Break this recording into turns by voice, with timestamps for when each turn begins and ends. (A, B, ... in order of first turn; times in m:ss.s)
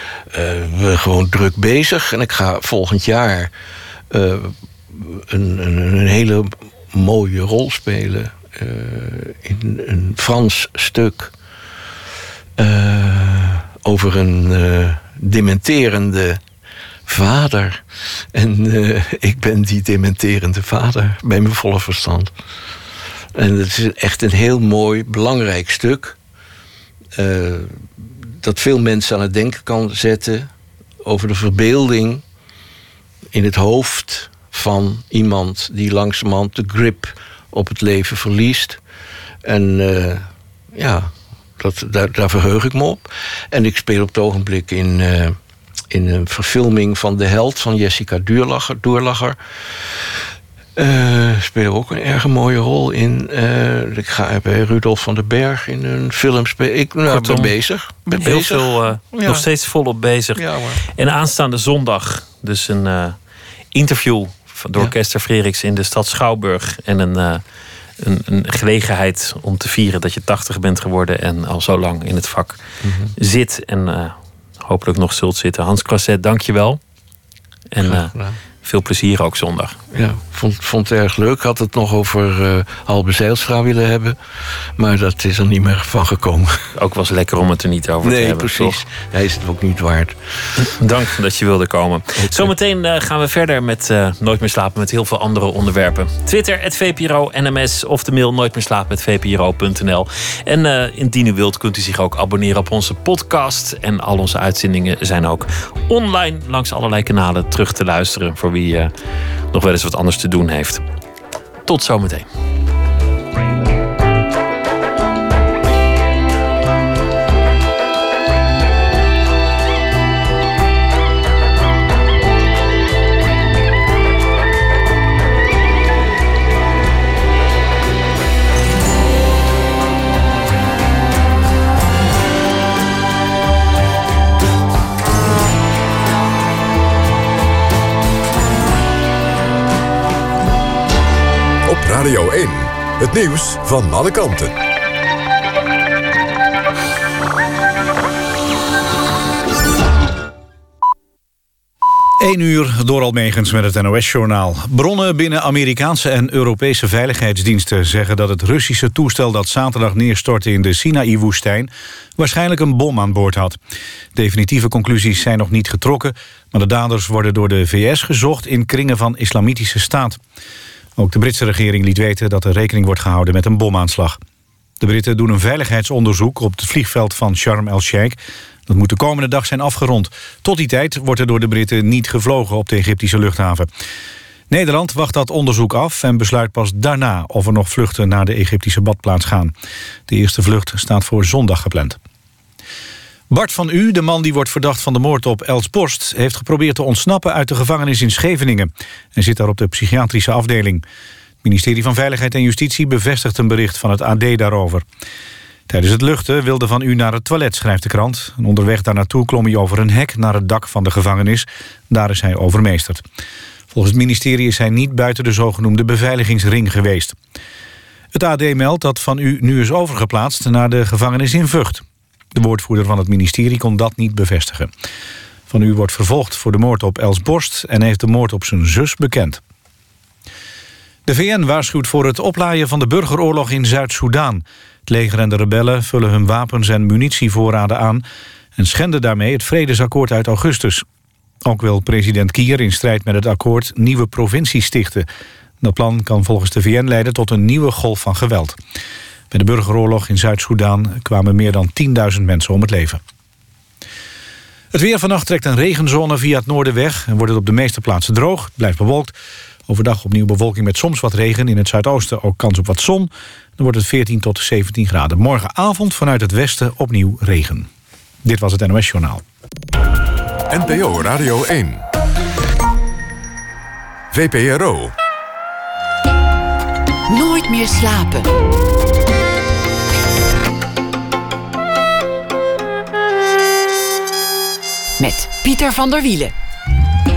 0:00.3-0:03.5 A
0:04.1-0:11.3 A
0:12.6-0:16.4 A
0:17.1-0:17.8 A
0:18.3-0:22.3 A
0:23.4-0:26.2 A
0:27.2-0:30.5 A
0:31.0-0:32.2 A
0:33.3-0:38.8 A
0:39.4-0:45.4 A
0:45.9-0:49.4 A
0:50.8-0:59.5 A
0:57.1-0:57.6 B
0:58.1-1:03.2 B
1:00.4-1:00.8 A
1:03.7-1:07.4 B
1:08.0-1:12.6 B
1:12.8-1:13.1 A
1:13.2-1:16.8 B
1:17.7-1:19.8 B
1:17.8-1:18.4 A
1:19.9-1:24.2 A
1:24.8-1:26.6 A
1:26.8-1:28.8 B
1:28.0-1:30.2 A
1:30.6-1:48.9 B
1:32.2-1:32.5 A
1:49.5-1:50.8 B
1:51.7-1:52.3 B
2:21.7-2:24.5 C
2:32.2-2:43.6 D
2:44.2-2:50.2 D
2:51.0-2:54.2 D
2:54.8-3:03.7 D
3:04.5-3:09.5 D
3:10.1-3:12.0 D
3:13.3-3:20.8 D
3:21.4-3:24.8 D
3:25.7-3:33.0 D
3:33.7-3:37.2 D
3:38.1-3:44.7 D
3:45.5-3:49.4 D
3:51.1-3:58.0 D
3:58.6-4:00.8 D
4:01.4-4:05.1 D
4:05.6-4:08.6 D
4:09.3-4:13.0 D
4:14.7-4:19.1 D
4:19.7-4:27.7 D
4:28.2-4:29.2 D
4:30.5-4:31.8 C
4:34.1-4:34.9 C
4:37.1-4:38.3 E
4:45.0-4:46.3 E